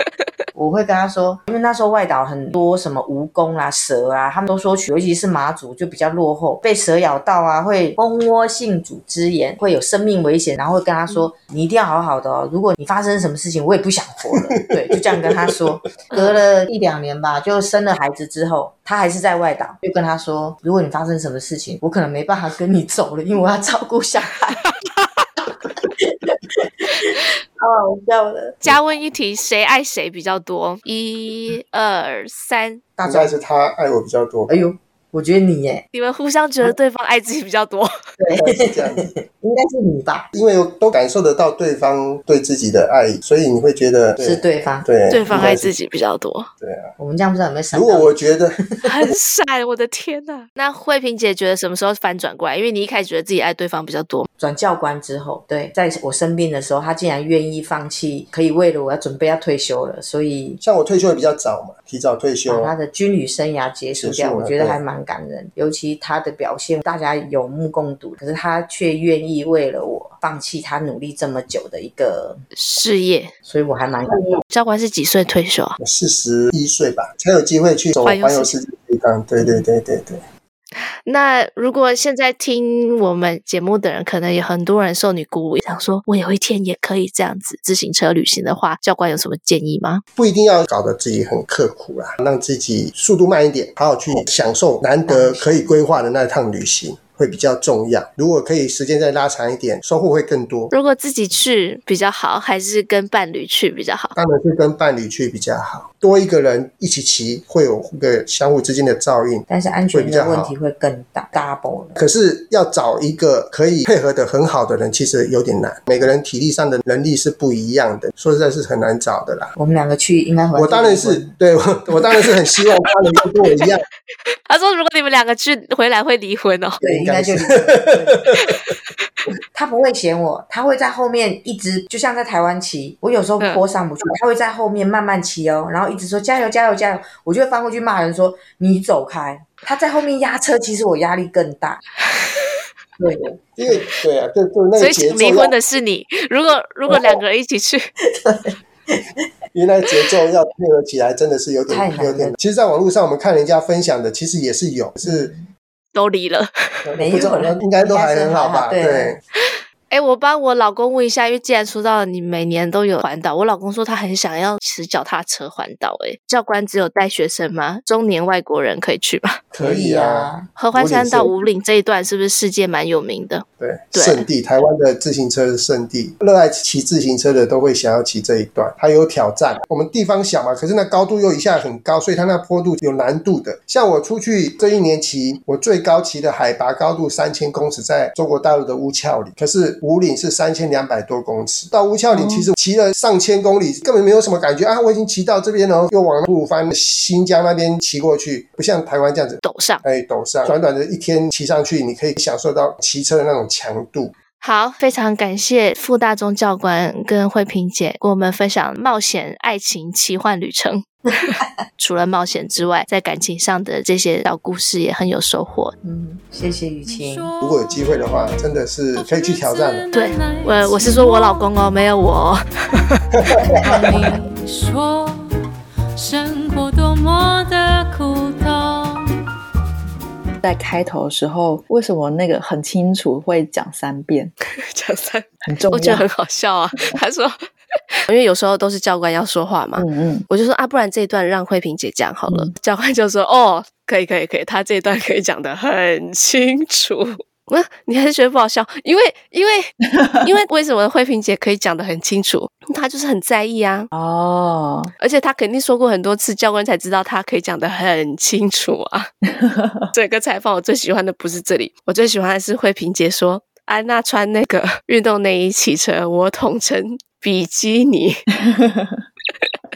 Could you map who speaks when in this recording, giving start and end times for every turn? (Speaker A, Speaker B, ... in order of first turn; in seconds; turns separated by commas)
Speaker A: 0.6-24.6, Speaker B: 14.4-15.7, Speaker C: 16.1-16.4, Speaker A: 25.5-28.6, Speaker C: 28.6-32.8, Speaker A: 33.0-33.3, Speaker B: 33.0-34.5, Speaker A: 34.5-35.8, Speaker C: 35.9-37.9, Speaker A: 38.2-40.3, Speaker B: 38.4-39.1, Speaker B: 40.3-45.7, Speaker A: 44.2-44.9, Speaker C: 45.1-46.5, Speaker B: 46.6-46.9, Speaker A: 47.0-48.9, Speaker B: 47.7-48.6, Speaker C: 48.8-54.3, Speaker A: 54.4-60.6, Speaker B: 60.6-62.7, Speaker A: 62.5-72.4, Speaker B: 64.0-64.8, Speaker C: 72.5-73.3, Speaker A: 73.5-74.4, Speaker C: 74.5-75.8, Speaker B: 75.8-80.2, Speaker C: 78.0-78.5, Speaker C: 81.0-90.0, Speaker B: 90.2-100.7, Speaker A: 95.1-95.7, Speaker C: 100.7-104.1, Speaker B: 104.1-110.5, Speaker A: 109.5-112.0, Speaker B: 112.0-119.5, Speaker A: 119.5-121.3, Speaker B: 120.5-123.8, Speaker C: 124.5-126.8, Speaker B: 126.8-128.8, Speaker A: 126.8-128.2, Speaker A: 129.5-141.8, Speaker C: 142.2-142.4, Speaker A: 143.0-143.9, Speaker B: 143.6-145.5, Speaker C: 144.8-147.9, Speaker A: 148.1-149.1, Speaker B: 149.5-155.3, Speaker A: 151.7-152.4, Speaker A: 155.0-155.4, Speaker C: 155.9-156.8, Speaker B: 156.8-159.2, Speaker A: 156.9-159.1, Speaker C: 159.9-169.4, Speaker B: 169.5-171.3, Speaker A: 169.6-170.5, Speaker C: 170.6-174.3, Speaker B: 173.6-204.1, Speaker D: 192.1-192.4, Speaker C: 199.4-199.8, Speaker C: 204.4-215.7, Speaker A: 215.8-217.3, Speaker E: 216.9-218.1, Speaker B: 217.4-219.9, Speaker E: 218.9-221.8, Speaker C: 219.9-223.0, Speaker B: 223.2-223.9, Speaker A: 223.5-224.2, Speaker E: 223.6-225.3, Speaker E: 225.9-229.2, Speaker D: 230.4-234.3, Speaker C: 234.6-237.4, Speaker D: 235.5-236.1, Speaker C: 238.1-253.9, Speaker D: 239.8-240.3, Speaker D: 249.9-250.2, Speaker D: 253.9-254.9, Speaker C: 255.0-259.1, Speaker D: 259.3-259.9, Speaker C: 259.9-268.2, Speaker D: 268.4-269.0